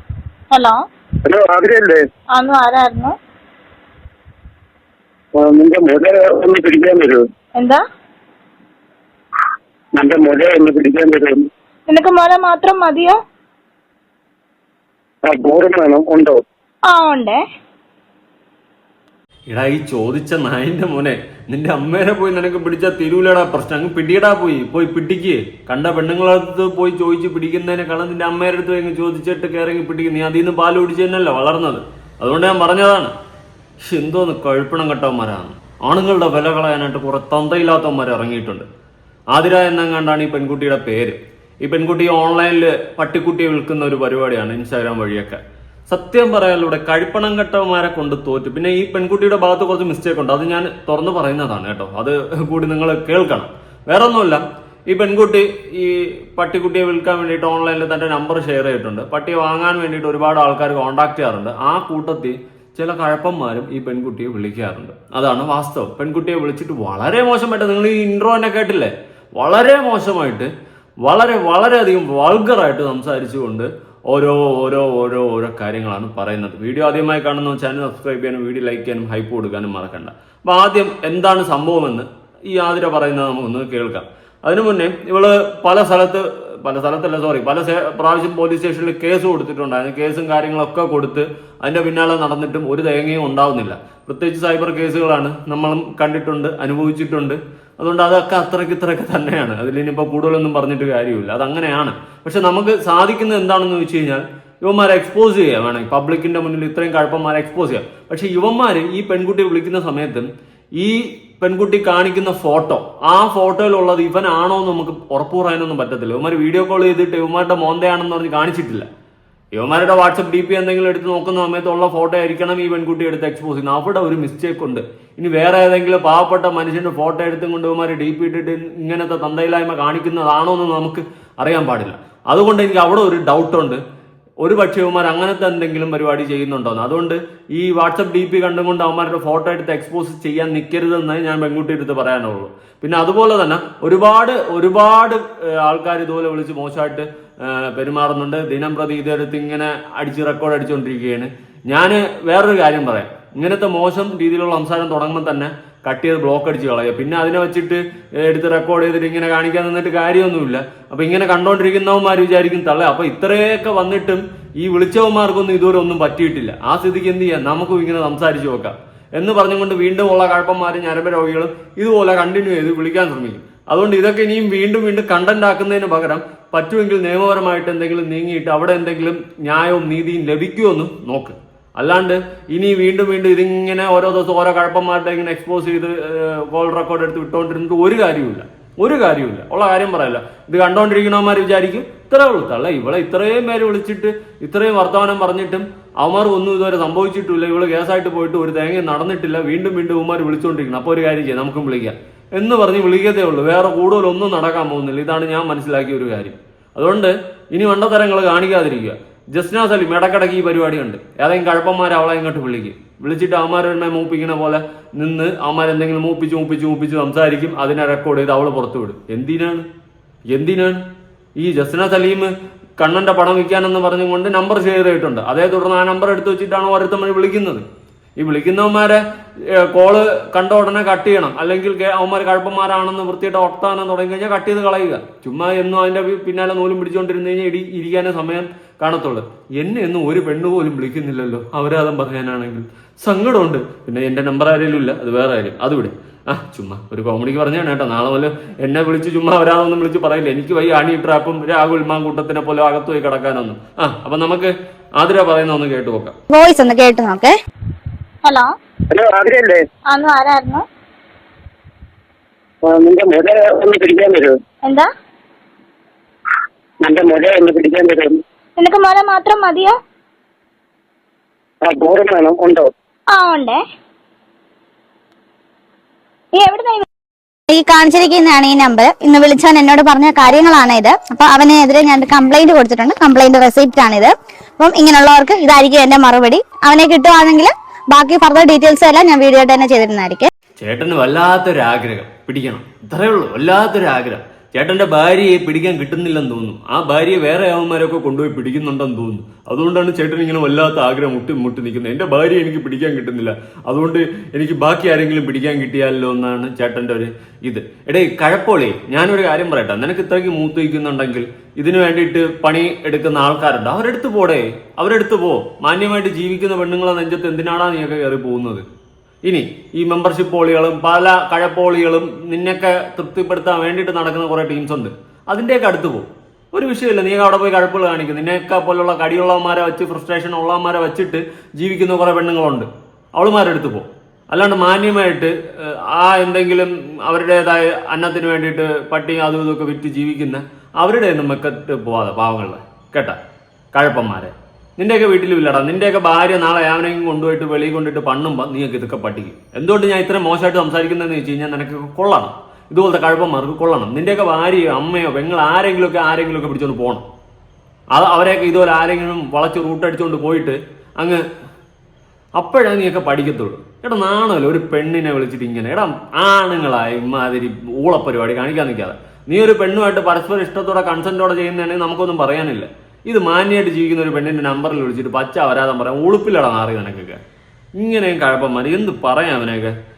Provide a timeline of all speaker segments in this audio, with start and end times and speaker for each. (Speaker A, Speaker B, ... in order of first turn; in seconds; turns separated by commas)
Speaker A: 1.2-2.0, Speaker B: 2.4-3.1, Speaker A: 5.4-7.2, Speaker A: 9.9-11.4, Speaker B: 11.9-13.2, Speaker A: 15.2-16.4, Speaker B: 16.9-17.4, Speaker C: 19.5-33.1, Speaker C: 33.8-38.7, Speaker C: 39.3-70.5, Speaker C: 71.0-118.9, Speaker C: 119.5-133.8, Speaker C: 134.4-219.7, Speaker C: 220.3-220.8, Speaker C: 221.4-227.6, Speaker C: 228.2-256.1, Speaker D: 256.3-257.3, Speaker A: 258.9-259.6, Speaker B: 259.9-260.6, Speaker A: 262.6-264.3, Speaker A: 266.8-268.2, Speaker B: 268.6-269.8, Speaker A: 271.6-272.7, Speaker B: 273.1-273.6, Speaker B: 276.4-276.8, Speaker D: 277.5-290.3, Speaker C: 290.6-318.6, Speaker C: 319.2-343.2, Speaker C: 343.7-357.1, Speaker C: 357.9-361.2, Speaker C: 362.4-377.2, Speaker C: 377.8-379.7